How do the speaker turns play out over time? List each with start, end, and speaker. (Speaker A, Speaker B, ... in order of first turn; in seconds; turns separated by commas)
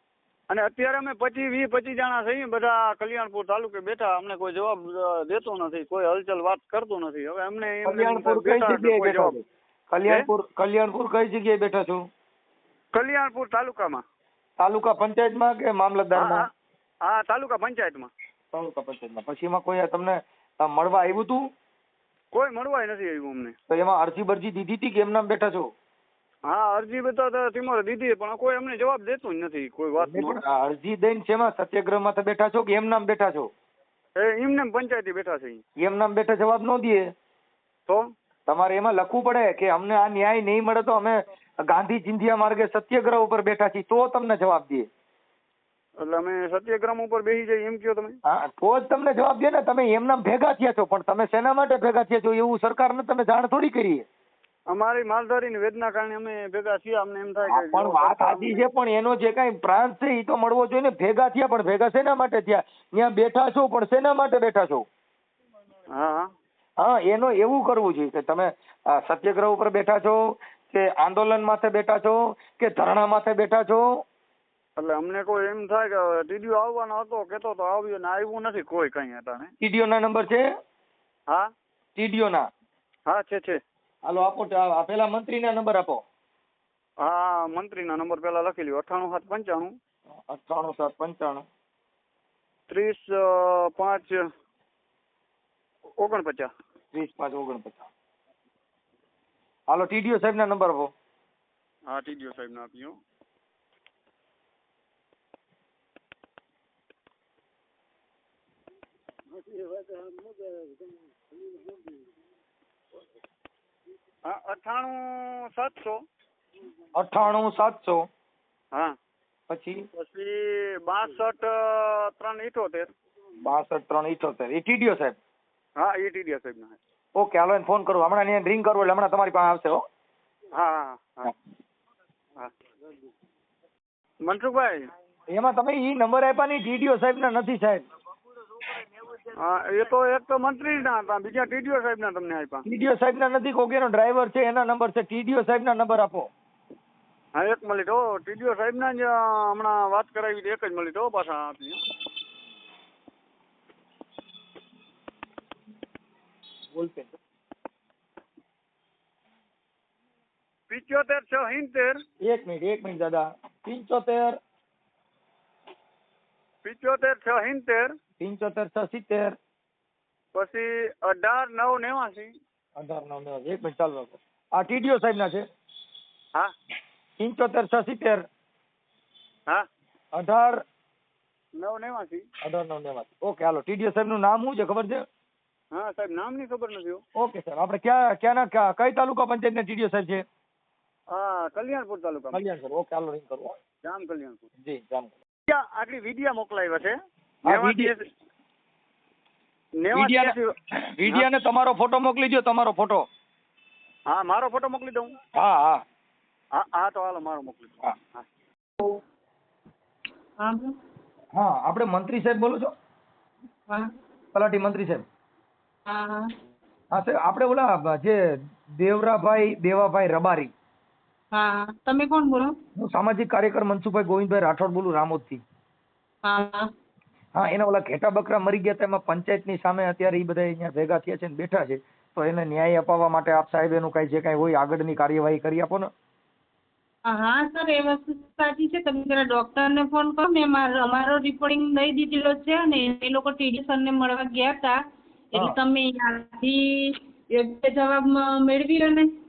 Speaker A: 0.5-9.3, Speaker B: 7.8-12.0, Speaker A: 12.9-14.0, Speaker B: 14.6-16.5, Speaker A: 16.1-16.5, Speaker A: 17.0-18.1, Speaker B: 18.5-21.4, Speaker A: 22.3-23.6, Speaker B: 23.7-25.7, Speaker A: 26.5-30.4, Speaker B: 30.0-33.5, Speaker A: 34.2-35.6, Speaker B: 35.8-37.0, Speaker B: 38.5-44.9, Speaker A: 46.0-48.1, Speaker B: 48.3-54.1, Speaker A: 54.7-58.7, Speaker B: 57.5-64.8, Speaker A: 65.9-66.3, Speaker B: 66.8-73.8, Speaker A: 74.8-79.5, Speaker B: 79.6-80.4, Speaker B: 82.0-82.5, Speaker A: 83.1-83.6, Speaker B: 84.0-86.0, Speaker A: 87.0-89.7, Speaker B: 90.3-91.4, Speaker A: 92.7-94.2, Speaker A: 96.0-96.5, Speaker B: 96.9-97.9, Speaker B: 99.7-100.9, Speaker A: 101.9-103.0, Speaker A: 114.2-116.0, Speaker B: 116.9-118.0, Speaker B: 119.5-119.8, Speaker A: 120.0-122.9, Speaker B: 123.4-125.2, Speaker A: 125.8-126.8, Speaker B: 127.2-129.8, Speaker A: 130.5-131.3, Speaker A: 134.2-134.8, Speaker B: 135.3-137.8, Speaker A: 139.3-142.7, Speaker B: 142.7-146.3, Speaker A: 147.3-151.8, Speaker B: 156.7-157.1, Speaker A: 160.7-162.0, Speaker B: 162.2-164.3, Speaker A: 166.6-167.9, Speaker B: 168.2-169.3, Speaker A: 170.3-172.3, Speaker B: 172.8-175.4, Speaker B: 177.2-178.2, Speaker B: 180.1-180.6, Speaker A: 181.6-182.2, Speaker B: 182.4-185.0, Speaker A: 185.7-187.0, Speaker B: 187.2-190.2, Speaker A: 191.1-192.4, Speaker B: 192.3-193.5, Speaker A: 193.8-194.4, Speaker B: 194.6-195.2, Speaker A: 195.5-196.9, Speaker B: 197.4-197.9, Speaker A: 197.4-198.0, Speaker A: 199.8-200.5, Speaker B: 199.9-200.4, Speaker B: 201.0-203.1, Speaker A: 204.1-205.1, Speaker B: 205.4-205.8, Speaker A: 206.6-208.2, Speaker C: 210.4-210.7, Speaker B: 211.3-212.7, Speaker B: 214.3-215.0, Speaker C: 215.9-216.3, Speaker B: 216.9-218.2, Speaker B: 218.8-220.5, Speaker C: 221.3-222.5, Speaker B: 222.8-225.4, Speaker C: 226.2-226.7, Speaker B: 227.3-235.9, Speaker C: 237.1-244.7, Speaker C: 245.3-249.1